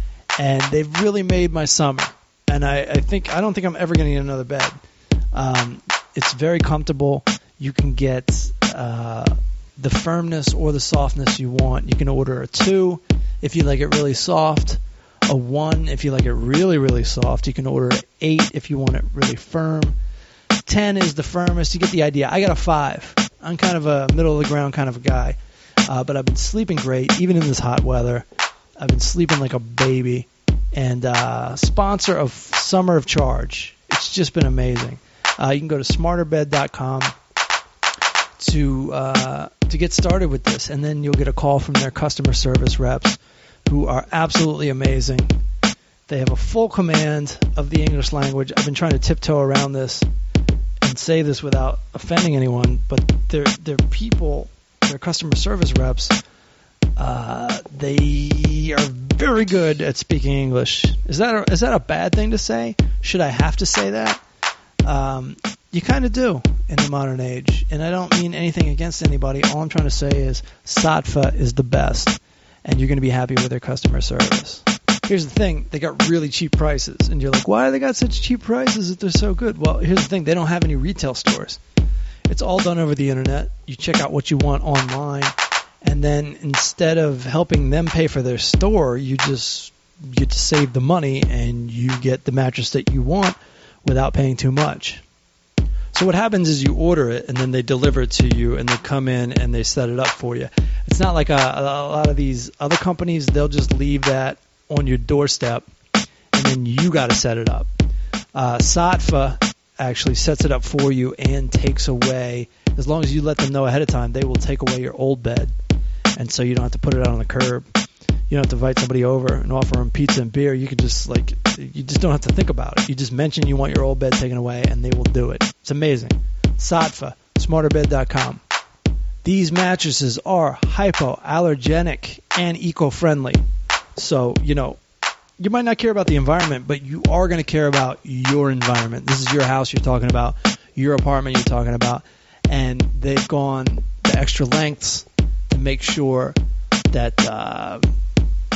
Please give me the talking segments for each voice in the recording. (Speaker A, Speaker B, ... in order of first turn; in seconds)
Speaker A: 0.4-4.8, 5.3-19.9, 20.6-28.2, 28.8-37.1, 38.4-45.3, 46.1-50.0, 50.8-56.1, 57.0-64.2, 64.8-81.6, 82.3-95.0, 95.9-105.7, 106.3-107.7, 108.3-115.5, 116.2-117.7, 118.3-128.4, 129.2-133.4, 134.0-134.8, 135.4-146.4, 146.9-147.8